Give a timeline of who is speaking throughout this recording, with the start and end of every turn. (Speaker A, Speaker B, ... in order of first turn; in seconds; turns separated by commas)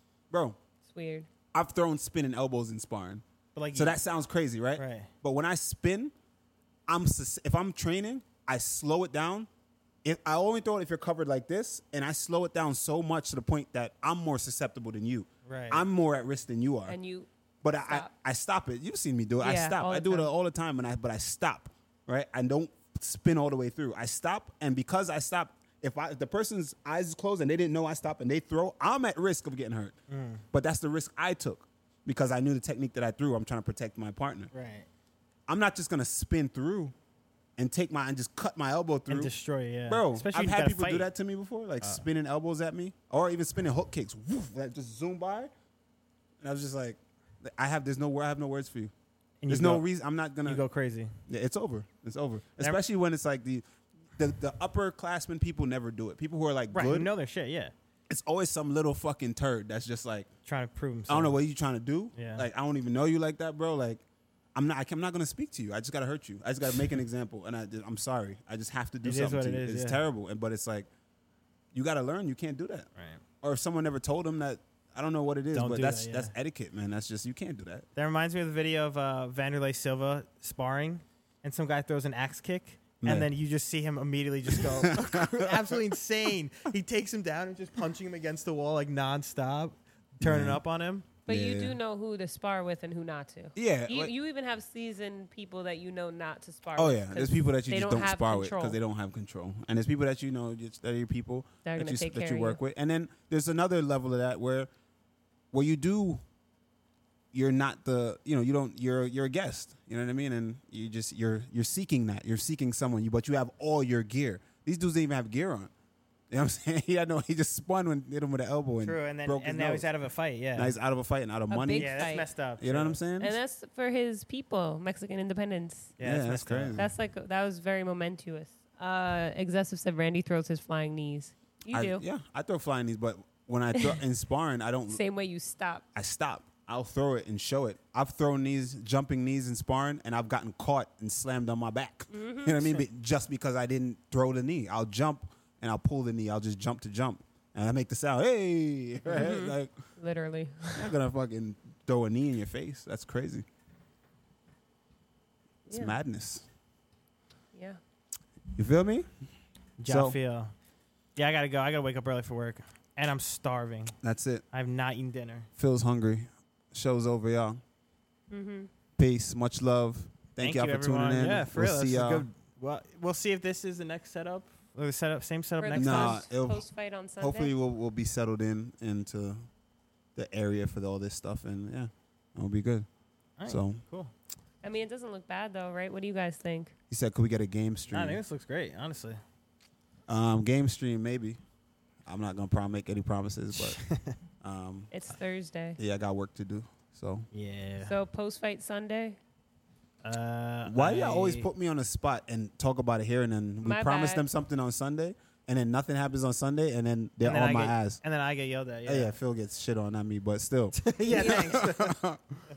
Speaker A: 0.3-0.6, Speaker B: 0.8-1.3, Speaker A: 1.5-3.2, Speaker C: 3.5-4.0, Speaker A: 3.8-6.1, Speaker C: 4.8-5.1, Speaker A: 6.9-9.5, Speaker A: 10.0-17.0, Speaker C: 15.5-15.9, Speaker B: 16.9-17.3, Speaker A: 17.6-30.0, Speaker B: 19.4-20.3, Speaker C: 30.1-30.5, Speaker A: 30.5-34.5, Speaker C: 34.5-34.9, Speaker A: 35.5-36.9, Speaker A: 37.6-39.3, Speaker C: 39.1-41.1, Speaker A: 39.9-45.5, Speaker A: 46.4-48.9, Speaker C: 49.4-49.9, Speaker A: 49.5-50.6, Speaker C: 50.5-51.2, Speaker A: 51.3-53.6, Speaker A: 54.2-57.1, Speaker C: 56.7-57.7, Speaker A: 58.1-60.3, Speaker C: 60.5-61.4, Speaker A: 61.1-64.0, Speaker C: 62.1-62.5, Speaker A: 64.5-70.9, Speaker C: 69.0-70.0, Speaker A: 71.7-72.9, Speaker C: 73.0-73.2, Speaker A: 73.4-77.9, Speaker C: 75.5-76.3, Speaker C: 78.0-91.1, Speaker A: 83.0-83.3, Speaker A: 84.6-85.8, Speaker A: 90.2-90.6, Speaker A: 91.3-91.8, Speaker B: 91.3-98.8, Speaker A: 93.6-94.1, Speaker A: 96.8-104.7, Speaker B: 101.7-102.6, Speaker A: 105.5-106.2, Speaker A: 107.3-115.7, Speaker A: 116.3-119.9, Speaker C: 118.8-120.8, Speaker A: 120.6-123.3, Speaker B: 121.5-122.3, Speaker C: 121.7-123.0, Speaker B: 123.2-126.0, Speaker C: 126.0-126.8, Speaker A: 126.0-126.9, Speaker B: 126.8-132.0, Speaker A: 131.7-135.0, Speaker B: 133.8-134.0, Speaker B: 134.9-135.8, Speaker A: 135.9-149.7, Speaker B: 142.1-142.8, Speaker B: 149.1-150.9, Speaker A: 150.8-153.4, Speaker B: 155.7-155.9, Speaker A: 155.7-156.5, Speaker B: 157.5-157.8, Speaker A: 158.6-159.1, Speaker C: 159.8-160.5, Speaker A: 159.9-160.2, Speaker C: 161.2-164.0, Speaker A: 164.0-164.4, Speaker C: 164.5-165.5, Speaker A: 165.6-167.6, Speaker B: 168.3-168.7, Speaker A: 169.0-172.3, Speaker C: 170.4-176.2, Speaker B: 175.6-177.5, Speaker A: 175.8-176.7, Speaker A: 177.2-179.5, Speaker A: 180.2-182.9, Speaker C: 183.4-184.1, Speaker A: 183.5-183.8, Speaker B: 184.6-186.7, Speaker A: 186.9-188.2, Speaker C: 187.9-189.2, Speaker A: 190.1-191.4, Speaker A: 192.1-193.8, Speaker C: 193.6-194.2, Speaker A: 194.4-194.9, Speaker B: 194.9-195.8, Speaker A: 195.8-197.3, Speaker C: 197.3-198.0, Speaker B: 197.9-199.2, Speaker C: 200.0-201.5, Speaker A: 200.7-208.0, Speaker B: 203.6-204.2, Speaker C: 207.2-209.2, Speaker A: 208.9-212.4, Speaker C: 210.8-212.0